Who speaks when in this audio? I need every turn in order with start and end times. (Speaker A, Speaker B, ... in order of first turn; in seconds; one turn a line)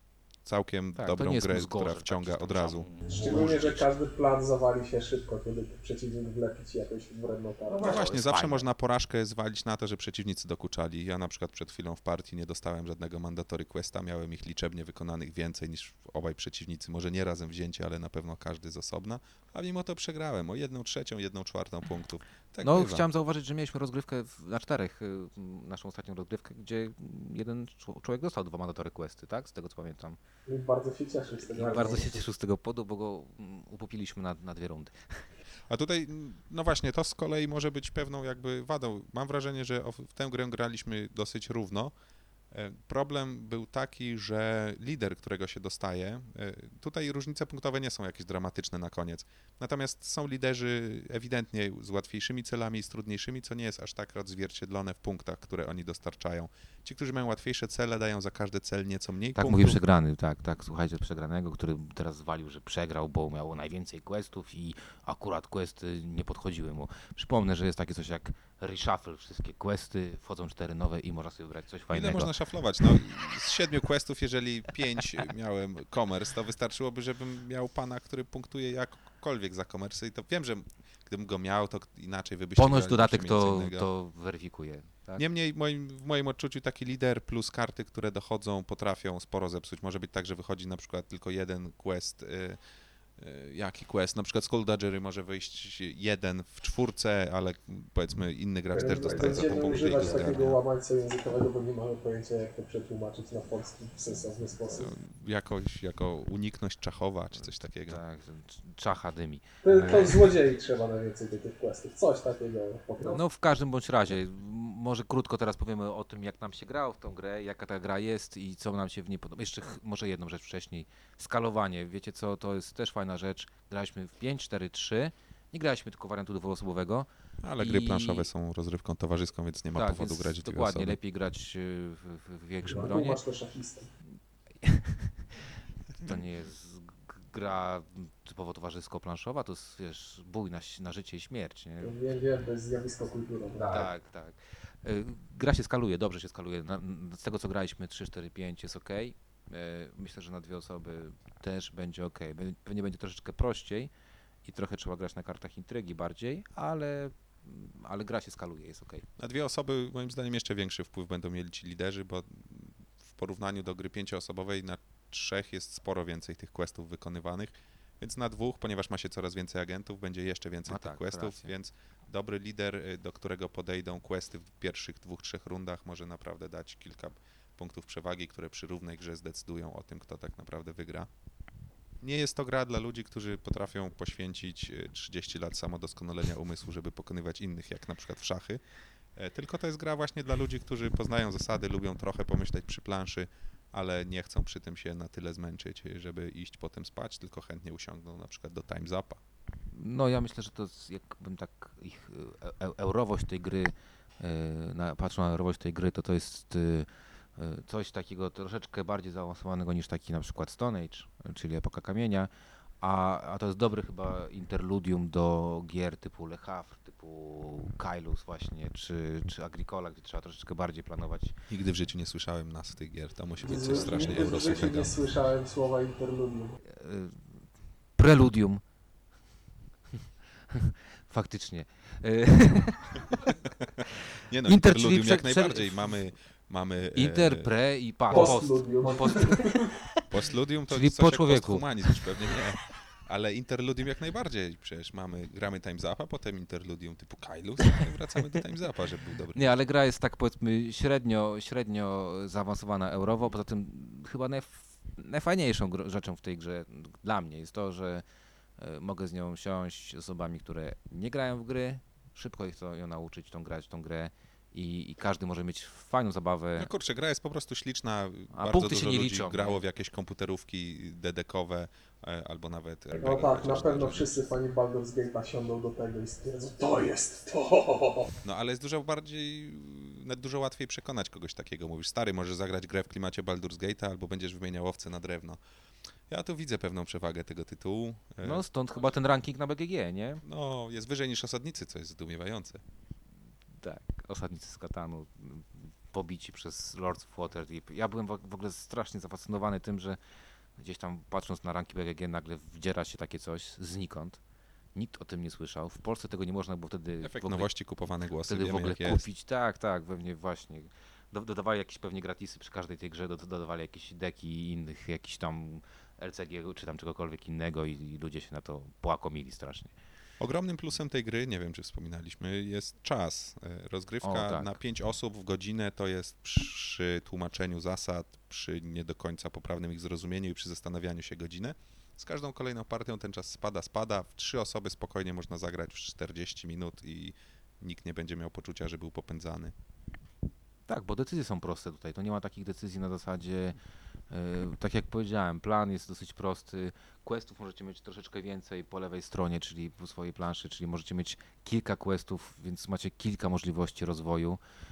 Speaker A: 0.4-2.9
Speaker B: 1.0-3.8
Speaker C: 3.1-8.0
Speaker B: 7.7-8.7
Speaker A: 7.8-23.0
Speaker B: 22.6-30.2
Speaker C: 30.5-32.2
Speaker B: 31.5-35.3
Speaker A: 35.7-41.9
Speaker A: 42.5-59.8
Speaker B: 59.4-73.0
Speaker A: 71.9-83.9
Speaker B: 82.6-85.2
Speaker A: 85.2-92.6
Speaker A: 93.2-100.6
Speaker C: 98.7-104.9
Speaker A: 104.7-108.0
Speaker B: 107.8-110.3
Speaker C: 109.6-113.2
Speaker B: 113.0-127.1
Speaker A: 127.4-131.0
Speaker B: 127.6-128.3
Speaker B: 129.7-133.2
Speaker C: 132.6-133.9
Speaker B: 134.6-141.9
Speaker C: 141.8-143.9
Speaker B: 143.5-153.9
Speaker B: 154.4-159.1
Speaker A: 159.2-181.1
Speaker B: 170.7-171.5
Speaker A: 182.0-188.6
Speaker A: 189.1-199.2
Speaker B: 199.7-212.3
Speaker B: 212.8-221.3
Speaker A: 221.5-224.9
Speaker C: 223.4-226.6
Speaker B: 226.6-227.4
Speaker B: 228.0-228.6
Speaker B: 230.5-233.2
Speaker A: 233.3-237.5
Speaker B: 233.9-235.9
Speaker B: 236.9-240.0
Speaker C: 238.1-239.7
Speaker A: 240.1-249.6
Speaker B: 240.7-242.0
Speaker B: 249.3-258.0
Speaker B: 258.6-266.7
Speaker A: 266.6-274.3
Speaker B: 268.3-269.6
Speaker C: 272.9-278.1
Speaker A: 278.2-285.4
Speaker A: 286.1-288.9
Speaker B: 288.2-290.2
Speaker A: 290.2-292.6
Speaker B: 293.6-300.0
Speaker B: 300.6-304.2
Speaker B: 304.7-307.5
Speaker A: 307.0-309.0
Speaker B: 308.2-319.7
Speaker A: 320.2-339.5
Speaker B: 324.0-324.5
Speaker B: 340.7-343.6
Speaker B: 344.1-354.4